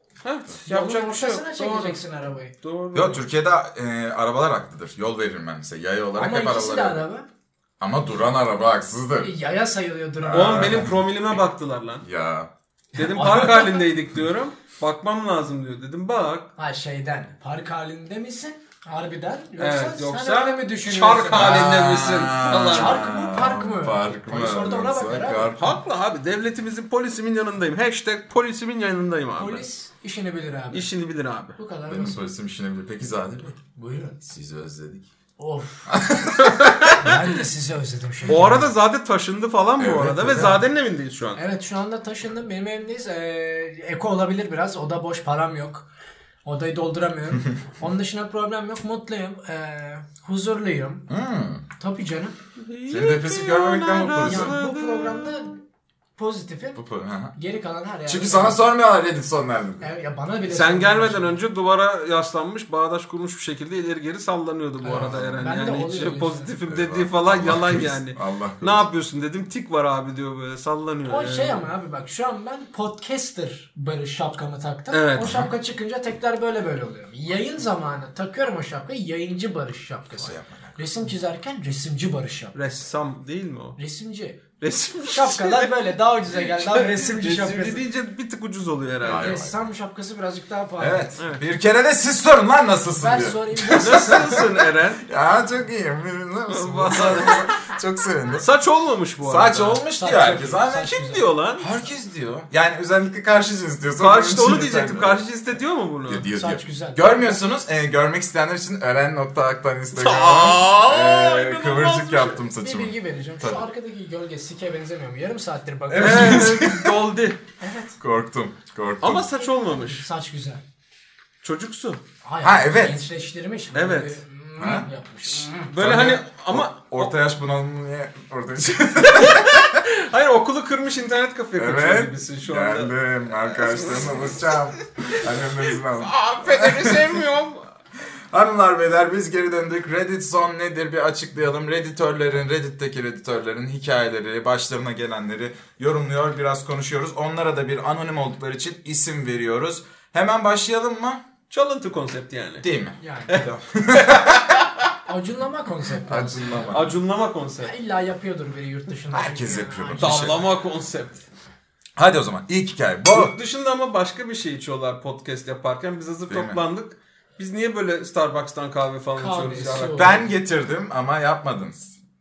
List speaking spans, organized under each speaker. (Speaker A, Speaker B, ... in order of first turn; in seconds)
Speaker A: 0.2-2.0, 2.6-3.2, 10.3-12.0, 12.9-16.5, 19.6-23.0, 25.6-29.6, 30.7-31.6, 36.4-37.3, 38.3-41.4, 52.5-55.3, 60.5-71.7, 74.9-75.3, 82.5-83.8, 84.6-85.7, 86.3-89.2, 91.2-91.4, 93.8-95.0, 96.5-97.5, 98.3-99.8, 100.9-101.7, 104.0-106.2, 109.9-112.4, 116.0-117.4, 119.0-120.0, 121.4-122.0, 123.7-124.2, 125.5-127.1, 129.0-137.7, 151.5-152.7, 153.3-154.9, 156.7-157.7, 160.0-161.2, 163.1-170.2
Speaker B: 0.7-2.5, 6.2-7.2, 9.2-10.9, 13.0-13.8, 16.6-21.8, 22.7-25.6, 29.4-30.9, 31.6-32.2, 33.8-34.2, 35.4-36.0, 36.9-38.7, 41.4-45.9, 46.4-51.1, 51.8-52.3, 54.2-55.6, 56.2-56.8, 57.3-58.6, 59.8-61.4, 64.8-66.5, 71.1-82.5, 83.8-84.4, 85.0-87.8, 89.0-91.1, 93.0-94.5, 100.0-101.3, 106.3-107.4, 112.4-116.6, 117.6-118.0, 119.6-120.6, 122.2-125.7, 153.0-153.4, 155.1-156.8, 157.6-160.3, 169.2-170.2
Speaker C: 2.9-7.0, 7.8-9.3, 10.2-11.1, 12.0-12.5, 21.3-25.8, 31.9-33.6, 34.2-35.0, 35.9-36.6, 38.3-38.6, 39.8-40.6, 51.1-51.6, 52.9-54.5, 56.7-57.3, 58.0-59.9, 64.9-65.6, 66.7-68.8, 75.2-75.5, 80.1-80.8, 89.0-89.5, 90.8-94.5, 95.0-98.5, 99.2-100.9, 101.6-105.3, 106.1-113.7, 115.9-117.0, 118.0-119.3, 122.4-123.0, 124.6-124.9, 125.8-129.8, 131.6-137.2, 138.3-151.2, 152.6-154.4, 156.1-157.0, 159.1-160.5, 161.9-163.3, 166.3-166.6, 169.9-171.9